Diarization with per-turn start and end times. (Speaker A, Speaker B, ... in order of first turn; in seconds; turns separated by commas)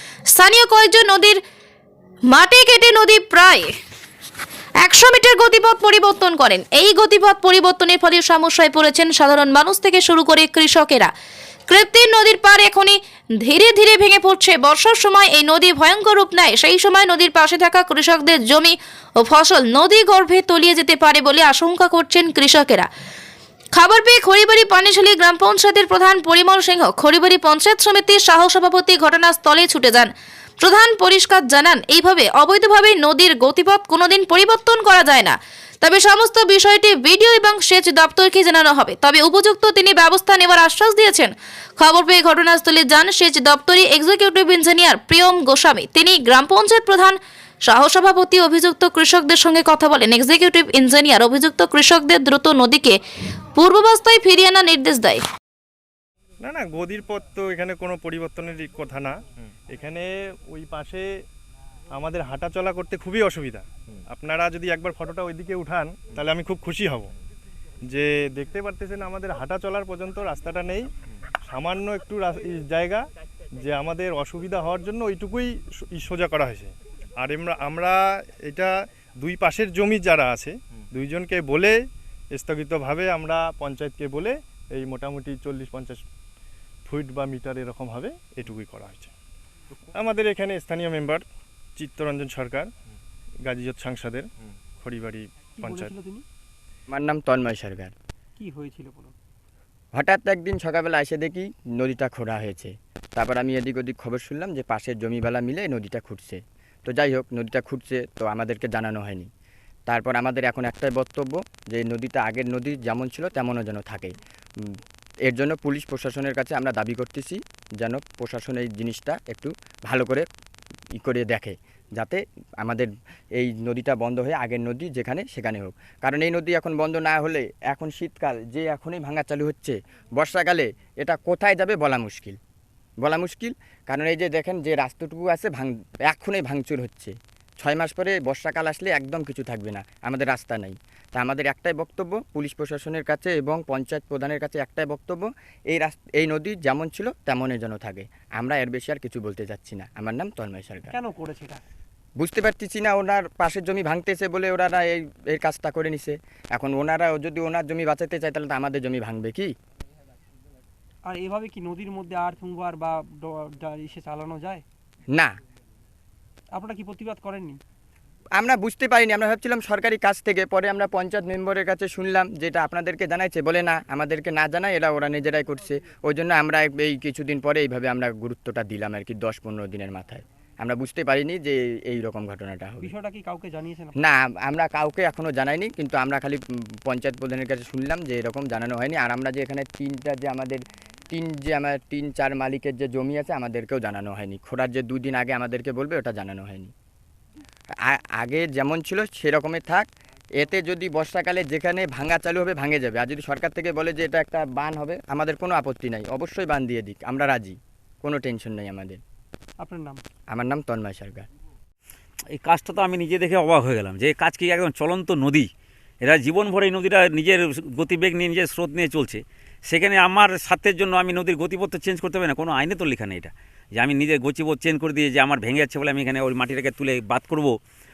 Speaker A: 0.3-1.4, Speaker A: 2.3-3.7, Speaker A: 4.8-11.1, Speaker A: 11.7-22.9, Speaker A: 23.7-53.0, Speaker A: 53.6-55.2, Speaker B: 56.4-59.1, Speaker B: 59.7-61.0, Speaker B: 61.9-67.1, Speaker B: 67.9-70.9, Speaker B: 71.4-73.0, Speaker B: 73.6-81.8, Speaker B: 82.3-86.0, Speaker B: 86.8-89.1, Speaker B: 89.9-91.2, Speaker B: 91.8-92.7, Speaker B: 93.4-94.3, Speaker B: 94.8-95.9, Speaker C: 95.6-96.2, Speaker D: 96.9-97.9, Speaker C: 98.4-99.1, Speaker D: 99.9-109.3, Speaker D: 109.9-114.1, Speaker D: 115.3-120.2, Speaker D: 120.9-132.4, Speaker D: 133.0-150.9, Speaker C: 150.9-151.6, Speaker D: 152.2-159.5, Speaker C: 161.1-164.6, Speaker C: 166.5-167.6, Speaker D: 168.3-182.9, Speaker C: 182.8-183.9, Speaker D: 184.0-196.7, Speaker D: 197.8-199.9, Speaker D: 200.4-209.0, Speaker C: 209.6-210.0, Speaker D: 210.3-211.3, Speaker E: 212.3-215.5, Speaker E: 216.0-227.5